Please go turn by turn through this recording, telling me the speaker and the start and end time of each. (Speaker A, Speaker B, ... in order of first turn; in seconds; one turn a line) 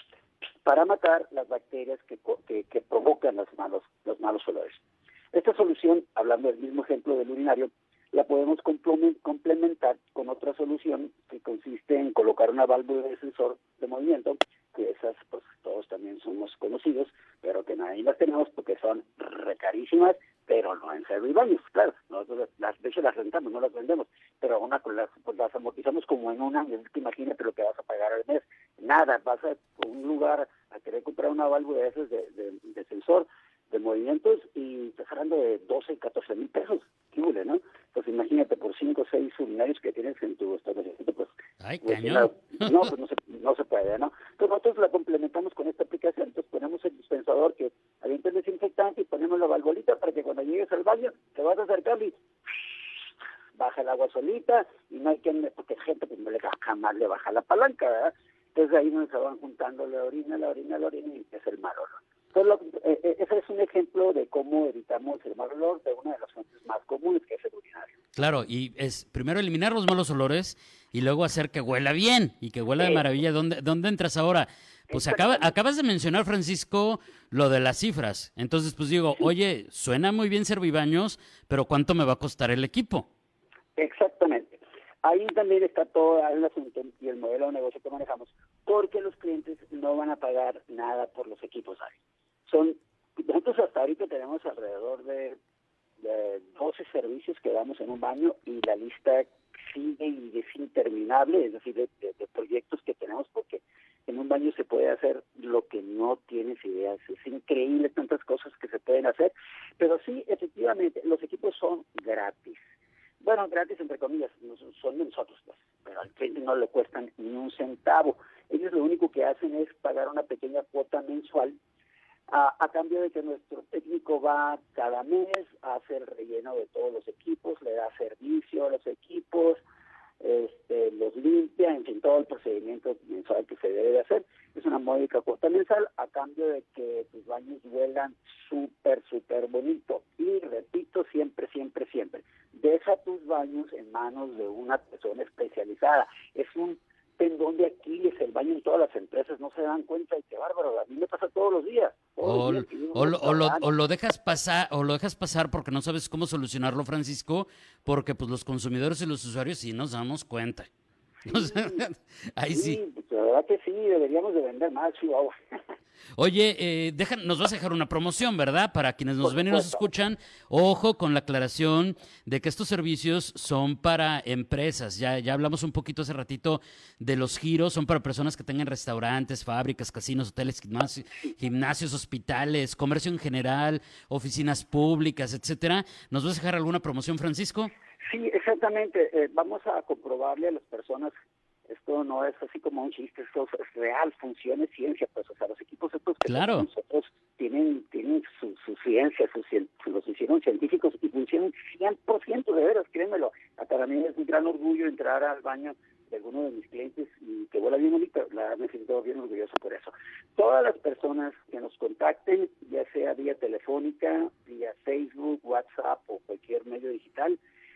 Speaker A: 0.6-4.8
Speaker A: 5.3-41.3
Speaker B: 41.6-42.8
Speaker A: 41.8-52.1
Speaker A: 53.6-67.9
Speaker B: 68.2-83.1
Speaker A: 72.8-73.0
Speaker A: 74.9-75.5
Speaker A: 83.8-95.4
Speaker A: 96.0-112.6
Speaker A: 113.2-121.5
Speaker A: 122.3-129.6
Speaker A: 130.2-153.7
Speaker B: 152.2-160.7
Speaker A: 161.3-161.8
Speaker B: 161.3-162.8
Speaker A: 162.5-165.3
Speaker B: 166.2-187.7
Speaker A: 169.2-169.8
Speaker A: 188.0-191.1
Speaker A: 191.7-217.4
Speaker B: 196.3-196.7